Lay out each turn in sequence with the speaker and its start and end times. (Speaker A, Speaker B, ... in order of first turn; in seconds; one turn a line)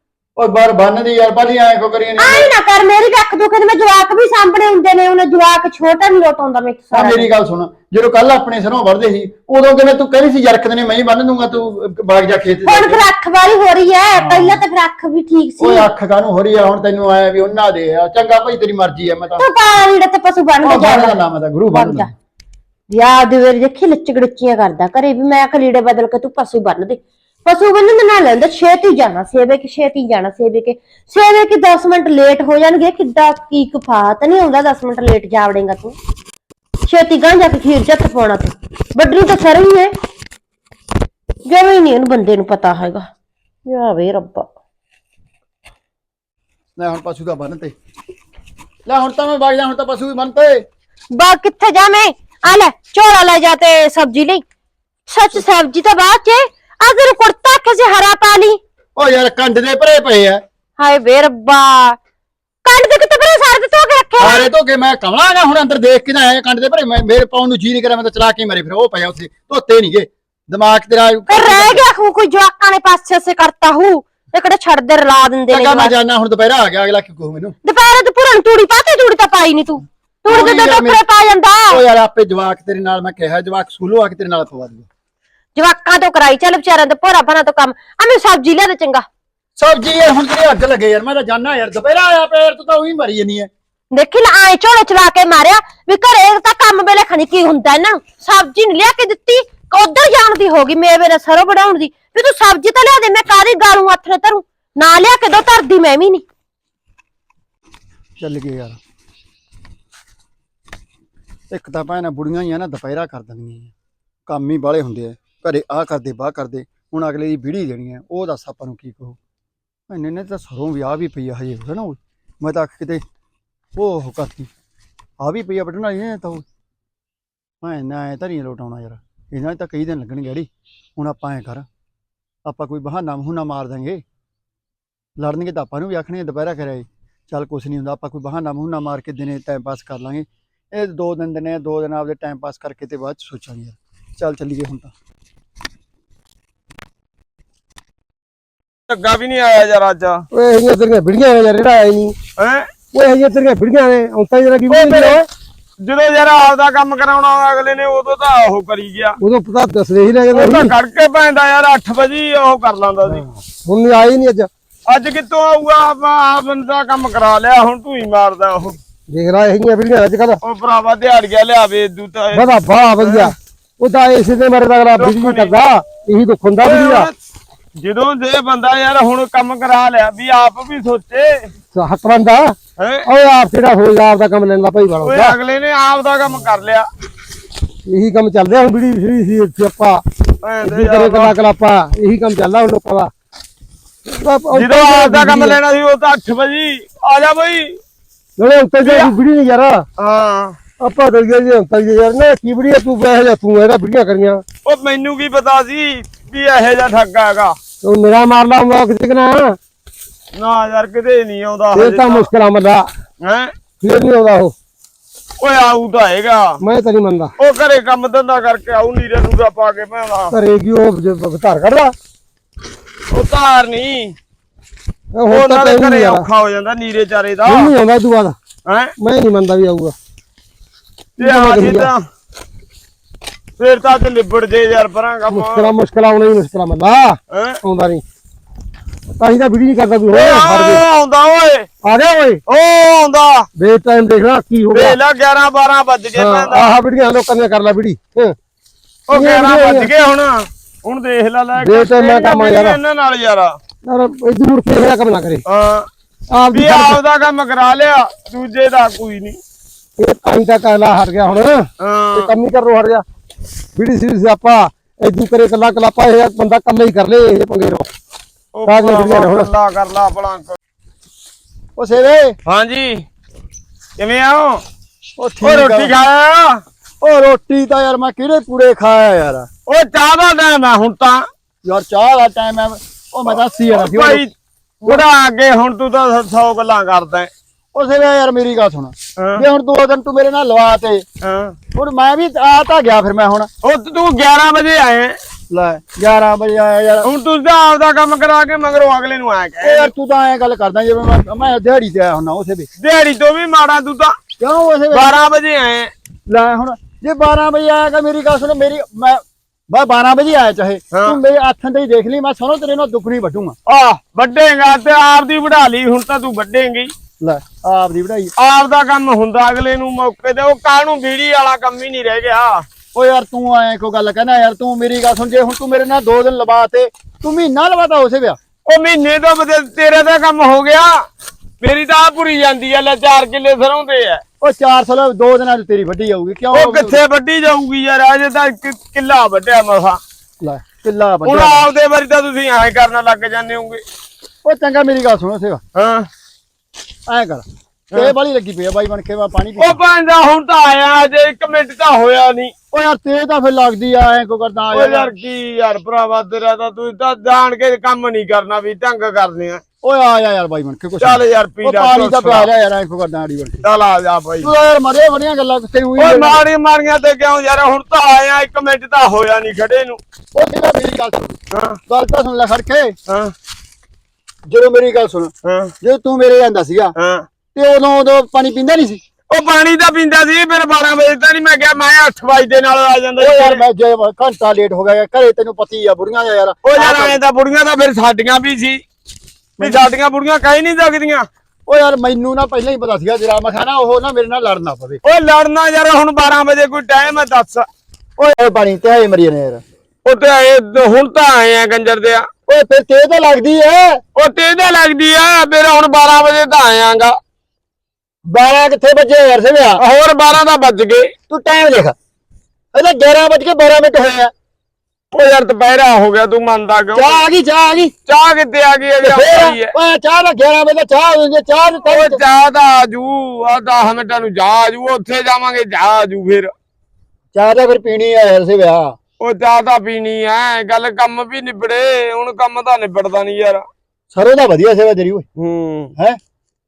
Speaker A: 0.4-2.5
Speaker B: 2.2-7.3
Speaker A: 6.9-13.1
Speaker B: 12.6-15.9
Speaker A: 14.2-14.6
Speaker A: 15.6-19.4
Speaker B: 19.4-21.2
Speaker A: 20.6-22.1
Speaker B: 21.7-22.1
Speaker B: 22.9-36.0
Speaker B: 36.8-39.9
Speaker B: 41.5-43.1
Speaker B: 43.6-44.5
Speaker A: 46.8-47.7
Speaker A: 48.9-50.6
Speaker B: 51.1-54.4
Speaker B: 55.1-58.6
Speaker A: 59.0-60.4
Speaker B: 60.8-62.0
Speaker B: 62.6-64.5
Speaker A: 64.2-71.8
Speaker B: 71.3-75.9
Speaker A: 75.5-77.5
Speaker B: 77.6-81.8
Speaker A: 80.3-81.0
Speaker A: 81.7-84.8
Speaker B: 85.5-89.0
Speaker A: 89.5-93.5
Speaker B: 93.9-106.2
Speaker A: 108.2-108.8
Speaker A: 111.5-113.7
Speaker A: 114.3-119.2
Speaker A: 119.9-123.0
Speaker A: 123.8-124.5
Speaker A: 125.2-126.4
Speaker A: 127.6-131.7
Speaker A: 132.4-134.0
Speaker A: 135.2-144.9
Speaker C: 148.9-150.2
Speaker D: 150.3-152.1
Speaker C: 152.4-152.7
Speaker D: 152.9-155.2
Speaker C: 154.7-155.2
Speaker C: 155.8-159.2
Speaker D: 159.2-160.8
Speaker C: 160.3-163.3
Speaker D: 163.6-164.5
Speaker C: 164.9-168.8
Speaker D: 169.1-170.4
Speaker C: 170.4-173.3
Speaker D: 172.3-177.1
Speaker C: 174.9-175.5
Speaker C: 176.6-177.2
Speaker C: 177.8-181.5
Speaker D: 181.7-185.3
Speaker C: 182.8-183.0
Speaker C: 185.0-186.9
Speaker D: 187.8-190.0
Speaker C: 190.4-191.4
Speaker D: 190.6-193.1
Speaker D: 194.1-195.6
Speaker C: 194.5-197.8
Speaker D: 198.4-199.8
Speaker C: 198.8-199.1
Speaker C: 200.0-200.6
Speaker D: 200.8-204.4
Speaker C: 204.6-207.6
Speaker D: 207.8-209.6
Speaker C: 210.3-212.3
Speaker D: 211.7-212.9
Speaker C: 213.2-213.5
Speaker D: 213.8-214.5
Speaker C: 215.4-216.6
Speaker D: 216.6-217.3
Speaker C: 217.4-220.3
Speaker D: 220.3-221.9
Speaker C: 223.1-224.1
Speaker D: 225.1-226.3
Speaker C: 225.3-227.7
Speaker D: 227.4-228.4
Speaker C: 228.7-228.9
Speaker D: 229.0-229.9
Speaker D: 231.2-231.9
Speaker C: 231.2-232.1
Speaker C: 233.6-235.7
Speaker D: 235.3-238.0
Speaker C: 237.3-237.6
Speaker D: 239.2-240.8
Speaker C: 240.1-241.7
Speaker D: 241.8-242.4
Speaker C: 242.5-243.5
Speaker D: 243.6-245.0
Speaker C: 244.7-246.7
Speaker D: 246.1-248.3
Speaker C: 249.1-253.6
Speaker D: 249.2-249.9
Speaker D: 251.6-252.8
Speaker D: 253.8-255.4
Speaker C: 255.5-255.9
Speaker D: 256.3-257.0
Speaker C: 256.5-259.4
Speaker D: 260.0-263.0
Speaker C: 261.8-262.3
Speaker D: 263.8-267.9
Speaker C: 268.5-270.6
Speaker D: 268.6-269.5
Speaker A: 271.8-272.4
Speaker C: 272.4-273.0
Speaker C: 274.0-274.6
Speaker A: 275.2-275.9
Speaker C: 275.4-276.6
Speaker A: 277.0-279.5
Speaker C: 279.7-281.2
Speaker A: 281.6-284.2
Speaker C: 283.3-287.3
Speaker A: 287.7-291.0
Speaker C: 289.2-289.4
Speaker C: 291.2-291.6
Speaker A: 291.7-293.5
Speaker C: 293.6-295.1
Speaker A: 295.5-297.1
Speaker C: 297.0-299.9
Speaker A: 299.6-302.7
Speaker C: 302.8-304.1
Speaker A: 304.4-305.2
Speaker C: 304.9-305.9
Speaker A: 306.3-313.6
Speaker C: 313.7-316.9
Speaker A: 317.2-318.3
Speaker C: 318.4-322.6
Speaker A: 322.9-328.4
Speaker C: 328.7-330.9
Speaker C: 331.6-334.2
Speaker A: 334.4-337.0
Speaker C: 336.5-340.0
Speaker A: 340.4-341.6
Speaker C: 341.2-343.8
Speaker A: 344.4-345.6
Speaker C: 345.7-346.1
Speaker A: 347.1-349.8
Speaker C: 349.6-352.5
Speaker A: 352.7-355.1
Speaker C: 354.7-359.6
Speaker A: 359.8-363.6
Speaker C: 361.0-362.5
Speaker C: 363.6-364.5
Speaker A: 364.4-366.4
Speaker C: 366.0-370.0
Speaker A: 370.3-372.9
Speaker C: 371.5-371.8
Speaker C: 373.1-373.3
Speaker A: 374.5-376.9
Speaker C: 375.4-375.7
Speaker C: 377.0-377.2
Speaker A: 377.5-379.0
Speaker C: 379.3-383.6
Speaker A: 383.2-387.1
Speaker C: 386.6-388.8
Speaker A: 389.6-389.8
Speaker C: 389.6-391.3
Speaker A: 391.7-395.0
Speaker C: 395.0-397.6
Speaker A: 398.2-399.6
Speaker C: 400.0-402.3
Speaker A: 402.5-404.0
Speaker C: 404.1-407.2
Speaker A: 408.2-409.8
Speaker C: 409.8-411.1
Speaker A: 411.3-411.9
Speaker A: 412.7-414.3
Speaker C: 415.1-417.2
Speaker A: 416.9-417.9
Speaker C: 418.1-419.7
Speaker A: 419.0-422.2
Speaker C: 421.9-426.5
Speaker A: 427.3-428.9
Speaker C: 429.2-433.6
Speaker A: 434.1-435.2
Speaker C: 435.4-435.9